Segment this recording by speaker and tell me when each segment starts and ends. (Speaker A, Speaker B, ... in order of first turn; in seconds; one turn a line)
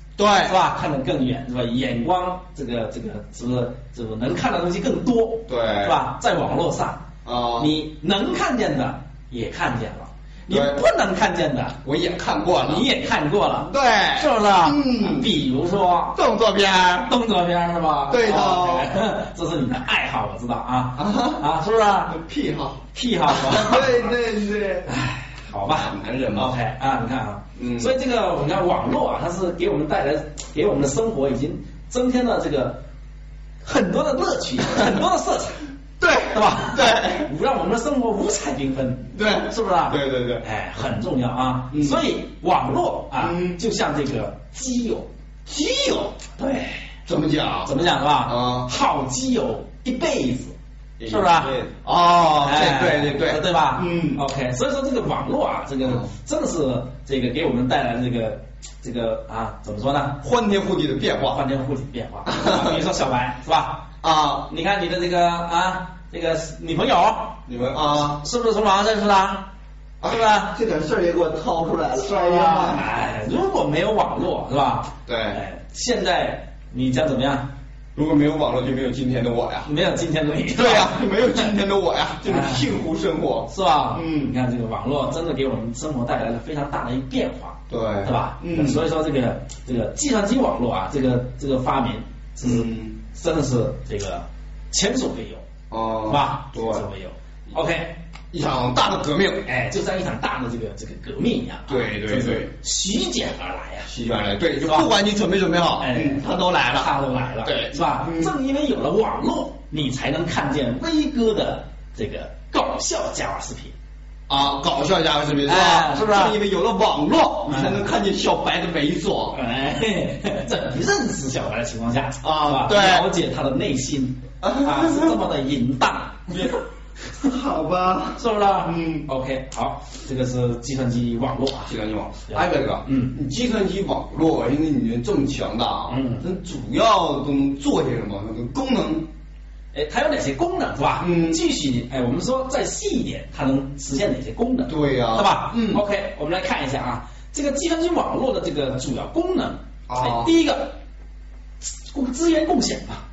Speaker A: 0.2-0.6
Speaker B: 0.4-7.1
Speaker A: 5.5-6.0
Speaker A: 7.2-7.8
Speaker B: 7.6-11.8
Speaker A: 10.5-10.8
Speaker A: 11.8-12.9
Speaker B: 12.6-16.2
Speaker A: 13.5-15.3
Speaker A: 16.1-17.1
Speaker B: 17.0-22.1
Speaker A: 18.1-18.9
Speaker A: 20.9-21.5
Speaker A: 22.1-24.9
Speaker B: 22.9-24.1
Speaker B: 24.9-32.8
Speaker A: 25.7-26.5
Speaker A: 27.6-28.0
Speaker B: 33.6-45.1
Speaker A: 36.0-37.3
Speaker A: 39.1-40.4
Speaker A: 41.7-42.0
Speaker A: 43.2-43.6
Speaker A: 45.5-46.2
Speaker B: 46.4-46.9
Speaker A: 47.1-48.7
Speaker B: 47.6-50.5
Speaker A: 51.0-54.2
Speaker B: 51.1-51.6
Speaker B: 52.4-60.2
Speaker A: 55.8-56.1
Speaker A: 60.2-61.4
Speaker B: 61.2-63.9
Speaker A: 62.3-62.8
Speaker A: 64.0-64.5
Speaker B: 64.5-67.4
Speaker A: 67.5-68.2
Speaker B: 68.1-69.5
Speaker A: 70.0-72.8
Speaker B: 70.1-70.5
Speaker B: 72.0-77.5
Speaker A: 75.1-75.4
Speaker A: 78.0-79.7
Speaker B: 79.6-81.5
Speaker A: 80.5-84.4
Speaker B: 82.3-82.7
Speaker B: 83.5-95.5
Speaker A: 87.7-88.9
Speaker A: 92.4-93.0
Speaker A: 95.7-96.8
Speaker B: 96.1-98.0
Speaker A: 98.3-99.5
Speaker B: 99.5-103.9
Speaker A: 101.7-102.5
Speaker A: 103.8-108.3
Speaker B: 104.5-104.9
Speaker B: 105.8-113.7
Speaker A: 114.3-119.4
Speaker B: 115.5-116.4
Speaker B: 117.5-117.8
Speaker B: 119.3-126.4
Speaker A: 122.2-123.1
Speaker A: 124.4-125.2
Speaker A: 126.3-126.6
Speaker A: 127.2-129.1
Speaker B: 128.2-131.8
Speaker A: 131.7-139.1
Speaker B: 132.3-133.1
Speaker B: 135.9-136.2
Speaker B: 139.7-150.8
Speaker A: 141.0-141.4
Speaker A: 144.7-145.8
Speaker A: 149.9-150.3
Speaker B: 151.6-153.0